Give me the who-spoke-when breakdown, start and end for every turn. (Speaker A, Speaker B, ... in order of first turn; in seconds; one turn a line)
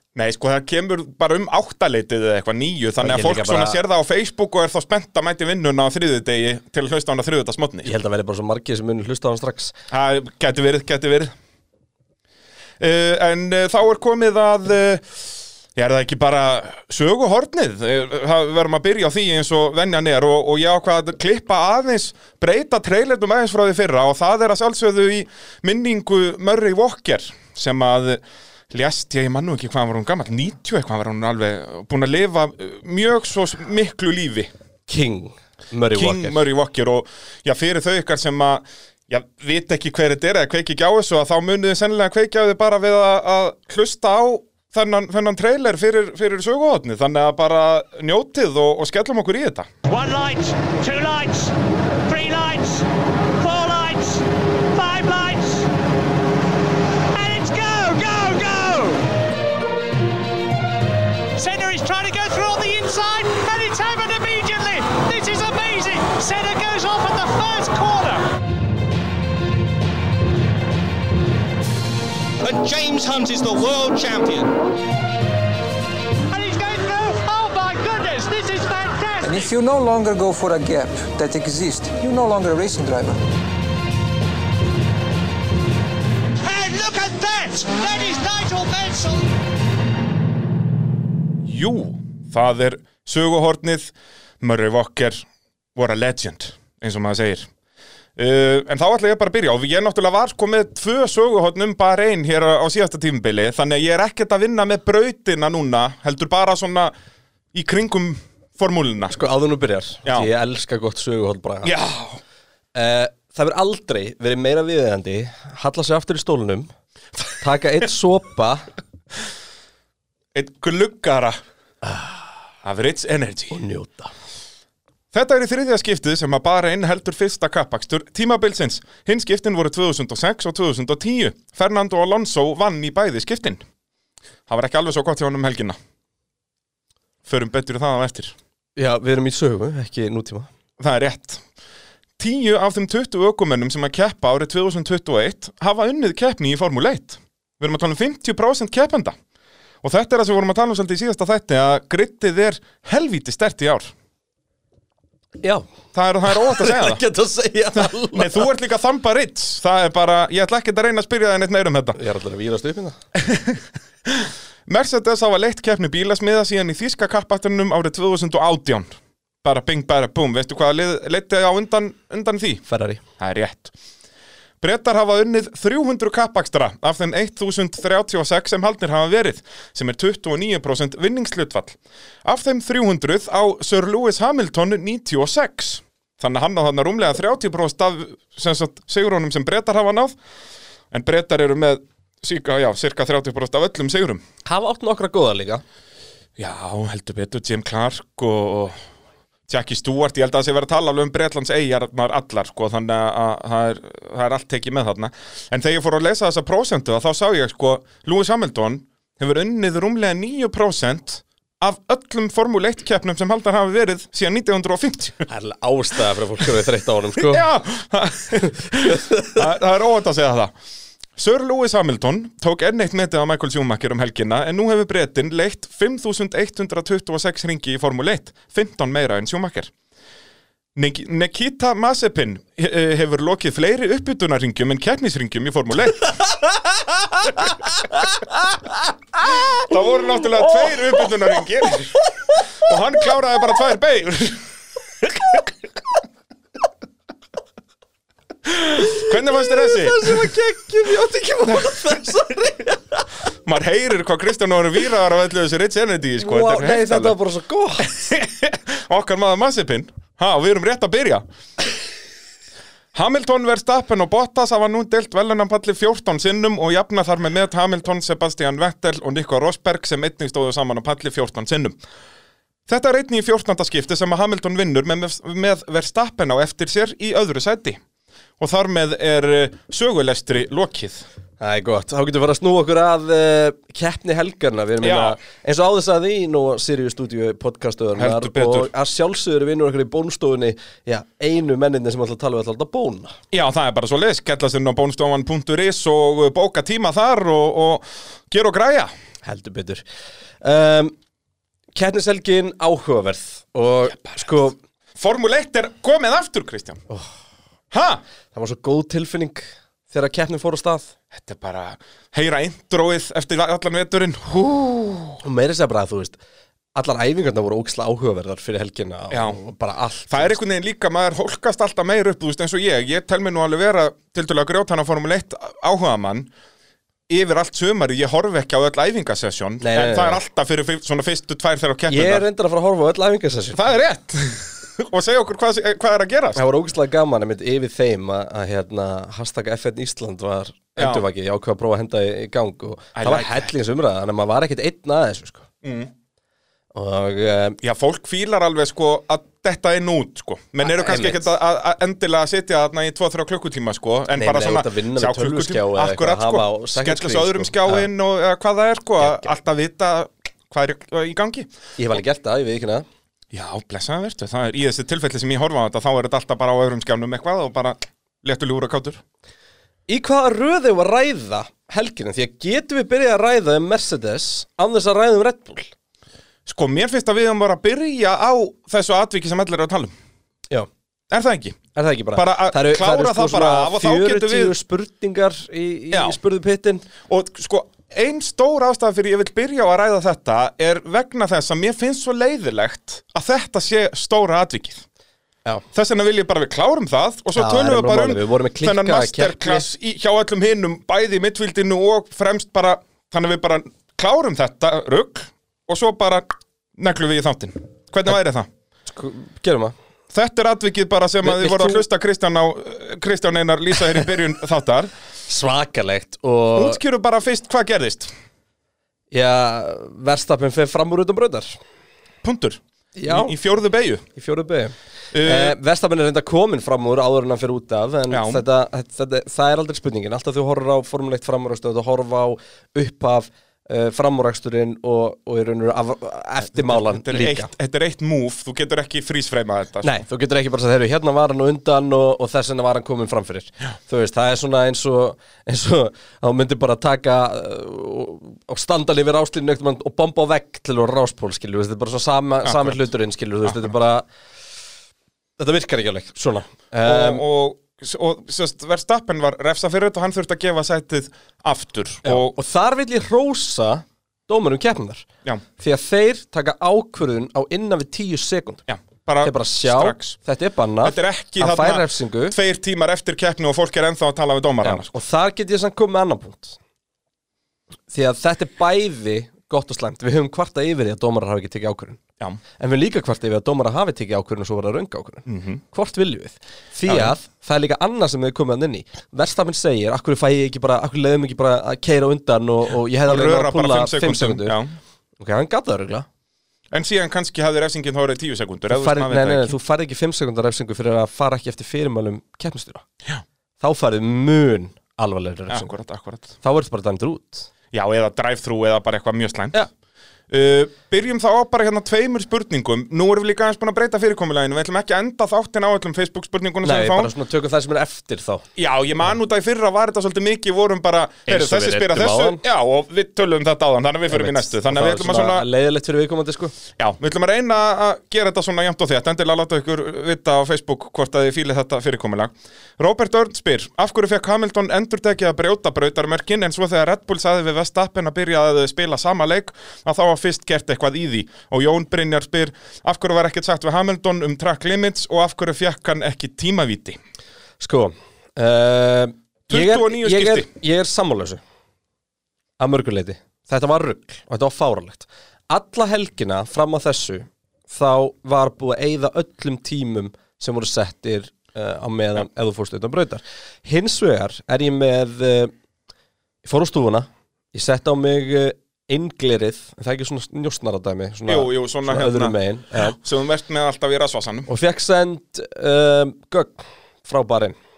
Speaker A: 0.1-7.9
Speaker B: 3.0-3.8
Speaker B: 7.8-9.8
Speaker A: 9.9-11.3
Speaker A: 12.8-34.5
Speaker B: 34.9-36.4
Speaker A: 35.9-49.7
Speaker C: 49.9-51.5
Speaker C: 52.1-52.9
Speaker C: 53.4-55.7
Speaker C: 57.1-59.0
Speaker C: 61.4-68.3
Speaker D: 72.4-74.5
Speaker C: 76.3-79.4
Speaker E: 79.2-83.2
Speaker C: 86.4-89.3
Speaker A: 91.4-97.5
Speaker A: 98.2-106.9
Speaker A: 107.5-109.2
Speaker B: 109.1-111.7
Speaker A: 110.0-110.3
Speaker A: 111.6-112.2
Speaker B: 112.8-116.7
Speaker B: 117.4-118.7
Speaker A: 120.3-121.4
Speaker B: 121.8-122.3
Speaker A: 122.6-123.6
Speaker B: 123.5-124.1
Speaker A: 125.1-133.6
Speaker A: 134.5-135.8
Speaker A: 137.2-138.3
Speaker B: 138.8-140.5
Speaker A: 140.8-141.4
Speaker A: 142.2-149.2
Speaker A: 149.8-153.9
Speaker B: 155.4-155.7
Speaker A: 155.9-157.0
Speaker B: 156.2-158.5
Speaker A: 157.7-162.0
Speaker B: 162.0-163.0
Speaker A: 163.2-172.6
Speaker B: 172.7-173.0
Speaker A: 173.2-173.7
Speaker A: 174.6-190.2
Speaker A: 190.9-194.2
Speaker B: 194.4-195.6
Speaker A: 196.4-198.8
Speaker A: 199.5-215.3
Speaker B: 215.3-217.4
Speaker A: 217.2-220.5
Speaker B: 218.8-219.4
Speaker A: 221.2-229.7
Speaker A: 230.8-236.2
Speaker A: 239.5-244.4
Speaker A: 248.5-250.3
Speaker B: 248.8-253.1
Speaker A: 253.4-257.2
Speaker B: 256.2-257.9
Speaker A: 257.8-261.2
Speaker A: 262.9-271.8
Speaker A: 272.7-277.8
Speaker A: 278.4-281.1
Speaker B: 281.4-293.2
Speaker A: 284.8-285.2
Speaker A: 288.0-288.7
Speaker A: 293.3-298.9
Speaker B: 299.2-299.8
Speaker B: 300.4-300.9
Speaker B: 301.8-304.6
Speaker A: 303.9-304.4
Speaker A: 305.0-306.8
Speaker A: 307.7-308.0
Speaker B: 308.3-310.9
Speaker A: 311.1-315.2
Speaker B: 315.2-316.2
Speaker B: 316.8-320.4
Speaker A: 319.1-319.4
Speaker A: 320.1-326.3
Speaker A: 327.1-332.2
Speaker B: 329.6-330.2
Speaker B: 331.9-333.6
Speaker A: 333.5-336.4
Speaker B: 336.4-345.5
Speaker A: 340.8-341.1
Speaker A: 343.0-343.5
Speaker A: 345.6-345.9
Speaker B: 346.8-347.6
Speaker A: 347.6-361.5
Speaker B: 350.7-351.3
Speaker B: 354.1-357.9
Speaker B: 361.8-362.9
Speaker A: 363.3-369.0
Speaker B: 369.9-375.7
Speaker A: 376.5-379.9
Speaker A: 381.1-381.6
Speaker B: 381.8-386.9
Speaker A: 382.1-384.6
Speaker A: 385.9-386.2
Speaker A: 387.1-394.8
Speaker A: 395.7-408.5
Speaker B: 397.4-399.7
Speaker B: 408.9-409.7
Speaker A: 410.1-414.9
Speaker B: 411.2-411.9
Speaker B: 415.3-416.8
Speaker A: 416.6-418.1
Speaker B: 419.1-421.6
Speaker A: 422.2-424.0
Speaker B: 423.0-423.4
Speaker B: 424.2-437.5
Speaker A: 425.1-425.6
Speaker A: 428.1-428.4
Speaker A: 436.5-440.0
Speaker B: 439.8-454.1
Speaker A: 452.4-452.8
Speaker B: 455.4-457.2
Speaker A: 456.8-462.3
Speaker B: 462.0-465.1
Speaker B: 465.6-468.6
Speaker A: 468.7-470.2
Speaker B: 469.2-472.4
Speaker A: 470.8-474.9
Speaker B: 474.6-476.6
Speaker B: 477.9-482.0
Speaker B: 482.6-494.6
Speaker A: 485.3-485.6
Speaker A: 486.9-487.1
Speaker A: 493.1-494.8
Speaker B: 495.2-496.1
Speaker A: 496.7-499.6
Speaker B: 498.7-502.8
Speaker B: 503.6-505.7
Speaker A: 505.5-506.3
Speaker B: 506.4-507.5
Speaker A: 507.7-509.6
Speaker A: 510.3-517.1
Speaker B: 516.6-518.4
Speaker A: 518.6-525.5
Speaker B: 521.3-522.4
Speaker B: 524.1-526.5
Speaker A: 526.8-547.0
Speaker B: 547.6-551.4
Speaker A: 549.5-550.5
Speaker B: 552.6-565.5
Speaker B: 566.4-573.0
Speaker A: 571.3-574.5
Speaker B: 574.5-577.6